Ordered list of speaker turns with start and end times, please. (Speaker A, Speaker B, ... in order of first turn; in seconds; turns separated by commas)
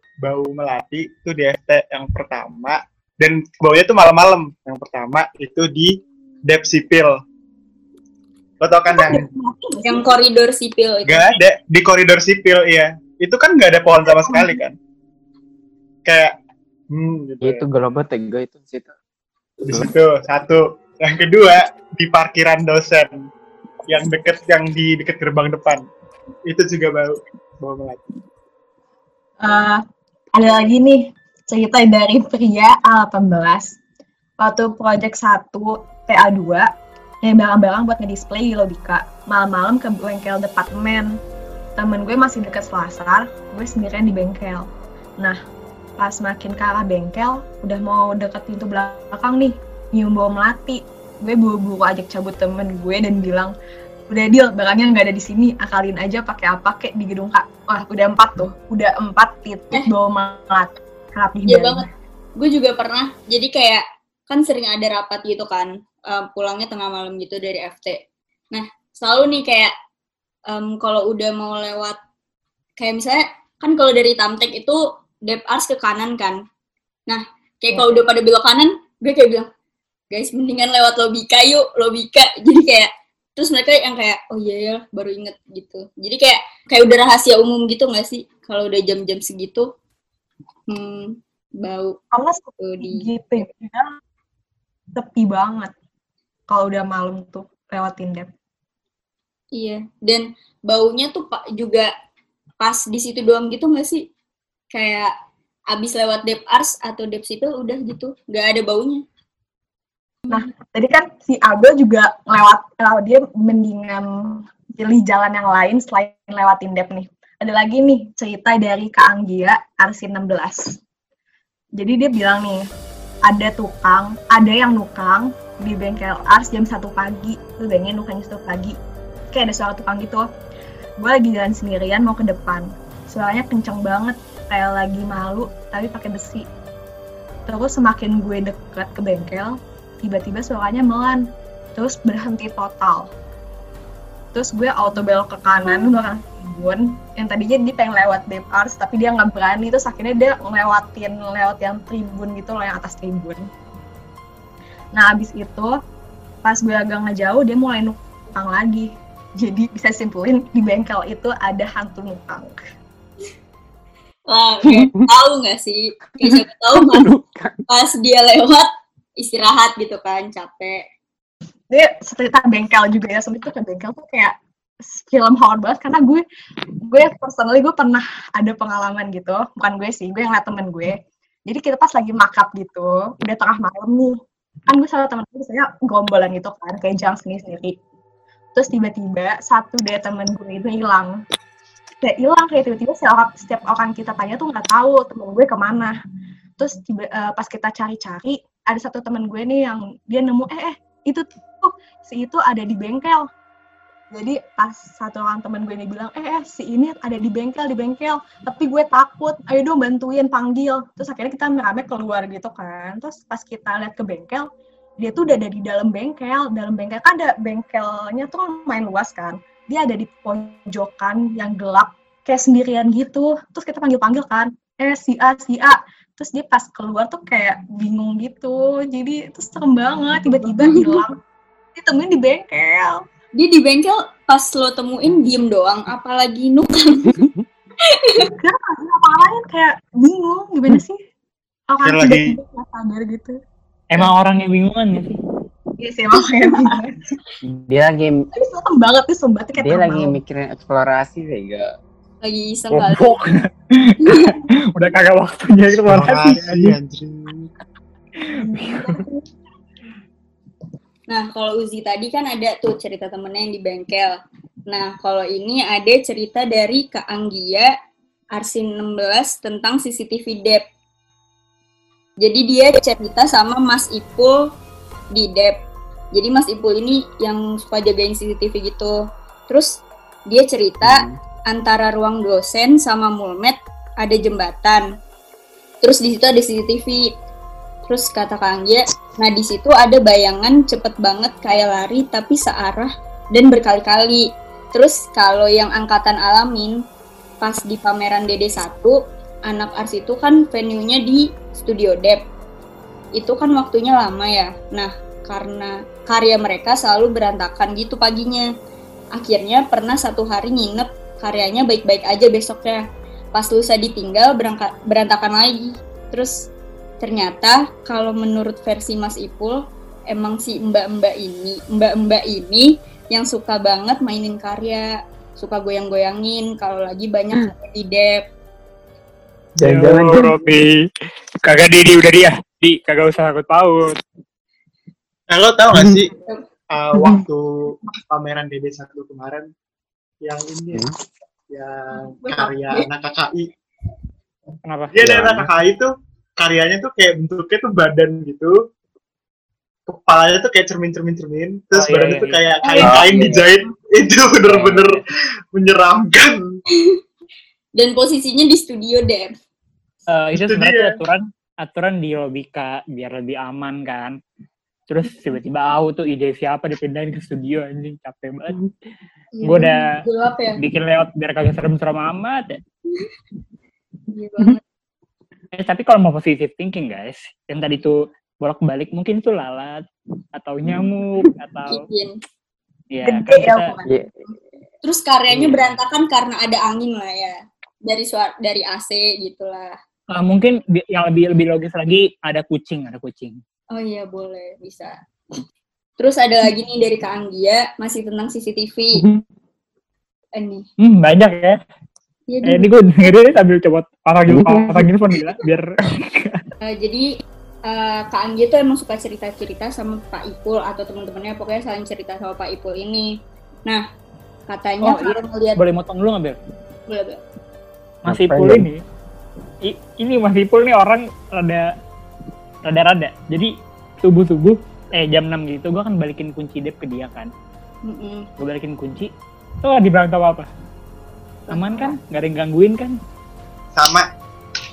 Speaker A: 0.2-7.1, Speaker A: 8.6-9.2, Speaker B: 8.9-10.1, Speaker C: 9.8-11.3, Speaker A: 11.0-14.8, Speaker B: 14.1-14.6, Speaker A: 16.1-16.3, Speaker A: 16.9-17.6, Speaker D: 17.4-18.9, Speaker A: 19.6-23.1, Speaker A: 23.9-25.8, Speaker A: 26.5-28.1, Speaker B: 29.4-29.8, Speaker B: 30.3-33.7, Speaker B: 34.4-36.6, Speaker B: 37.2-41.1, Speaker B: 41.8-44.7, Speaker B: 46.0-53.5, Speaker B: 54.1-61.9, Speaker C: 61.5-61.9, Speaker C: 62.4-68.0, Speaker C: 68.5-69.7, Speaker C: 70.5-72.0, Speaker C: 72.8-76.4, Speaker C: 77.1-79.5, Speaker B: 77.7-78.0, Speaker C: 80.1-89.7, Speaker C: 90.7-92.0, Speaker B: 92.1-93.9, Speaker C: 92.6-93.0, Speaker B: 94.9-95.7, Speaker B: 96.5-98.3, Speaker C: 99.5-101.9, Speaker C: 102.6-104.0, Speaker C: 104.7-105.1, Speaker C: 105.7-109.0, Speaker B: 110.3-120.8, Speaker B: 121.8-122.7, Speaker B: 123.3-128.8, Speaker B: 129.3-130.3, Speaker B: 131.0-136.4, Speaker B: 137.5-141.2, Speaker B: 141.7-143.1, Speaker B: 144.3-153.5, Speaker B: 154.9-155.7, Speaker B: 156.4-162.6, Speaker C: 164.3-167.1, Speaker D: 164.6-165.1, Speaker D: 166.2-167.6, Speaker C: 167.7-168.7, Speaker C: 169.2-170.8, Speaker B: 171.7-176.2, Speaker B: 176.9-184.2, Speaker B: 184.7-187.7, Speaker B: 188.5-191.1, Speaker B: 192.0-195.9, Speaker B: 196.6-203.3, Speaker B: 204.1-214.5, Speaker B: 215.0-231.2, Speaker C: 230.4-231.0, Speaker B: 231.7-233.0, Speaker C: 233.3-237.1, Speaker D: 237.2-237.4, Speaker C: 237.8-238.3, Speaker B: 238.2-241.0, Speaker B: 241.7-243.3, Speaker A: 241.8-242.4, Speaker E: 243.9-245.2, Speaker B: 245.8-247.0, Speaker C: 246.4-246.8, Speaker D: 247.4-248.2, Speaker B: 248.3-250.2, Speaker D: 249.6-251.7, Speaker C: 252.2-253.2, Speaker E: 252.7-256.8, Speaker C: 254.0-254.4, Speaker A: 255.9-257.5, Speaker B: 258.3-259.2, Speaker E: 258.5-259.0, Speaker C: 261.1-267.7, Speaker C: 268.3-270.6, Speaker C: 272.2-274.5, Speaker C: 275.1-275.6, Speaker C: 276.1-278.9, Speaker C: 279.5-284.9, Speaker D: 280.8-281.1, Speaker C: 285.8-287.1, Speaker C: 287.9-296.7, Speaker C: 297.4-302.2, Speaker C: 303.1-308.5, Speaker C: 309.1-312.8, Speaker C: 313.3-316.5, Speaker C: 317.0-328.2, Speaker D: 329.6-330.4, Speaker E: 329.6-330.7, Speaker E: 331.4-334.0, Speaker A: 335.3-336.1, Speaker A: 336.7-339.5, Speaker D: 336.9-337.2, Speaker A: 340.2-340.9, Speaker A: 341.5-343.5, Speaker C: 342.2-342.9, Speaker E: 344.7-344.9, Speaker A: 344.9-348.5, Speaker D: 345.0-345.5, Speaker A: 349.9-355.0, Speaker E: 351.7-352.4, Speaker C: 352.6-353.4, Speaker D: 352.8-353.4, Speaker E: 354.4-355.0, Speaker A: 355.5-356.4, Speaker C: 356.7-357.0, Speaker C: 357.8-359.3, Speaker E: 360.1-364.1, Speaker A: 360.3-361.0, Speaker E: 364.9-368.6, Speaker C: 369.3-370.6, Speaker E: 369.4-369.9, Speaker E: 370.6-372.6, Speaker C: 374.1-374.6, Speaker E: 375.5-381.8, Speaker C: 381.7-382.1, Speaker E: 382.9-383.7, Speaker B: 383.0-383.9, Speaker D: 383.8-384.1, Speaker C: 384.8-389.8, Speaker E: 385.4-385.6, Speaker E: 390.1-393.4, Speaker C: 393.7-394.9, Speaker C: 396.0-399.0, Speaker D: 398.9-399.2, Speaker C: 400.3-400.7, Speaker E: 400.8-401.6, Speaker C: 402.3-402.7, Speaker E: 402.4-406.4, Speaker D: 404.3-404.9, Speaker C: 406.6-407.1, Speaker C: 407.6-413.1, Speaker C: 414.5-415.6, Speaker E: 414.8-416.4, Speaker C: 416.9-417.2, Speaker E: 418.0-418.8, Speaker D: 418.1-418.7, Speaker E: 419.6-421.6, Speaker E: 422.7-423.5, Speaker E: 424.0-427.3, Speaker C: 427.9-428.3, Speaker E: 428.4-429.1, Speaker E: 429.6-430.5, Speaker C: 431.5-431.9, Speaker E: 431.5-433.0, Speaker A: 433.7-434.1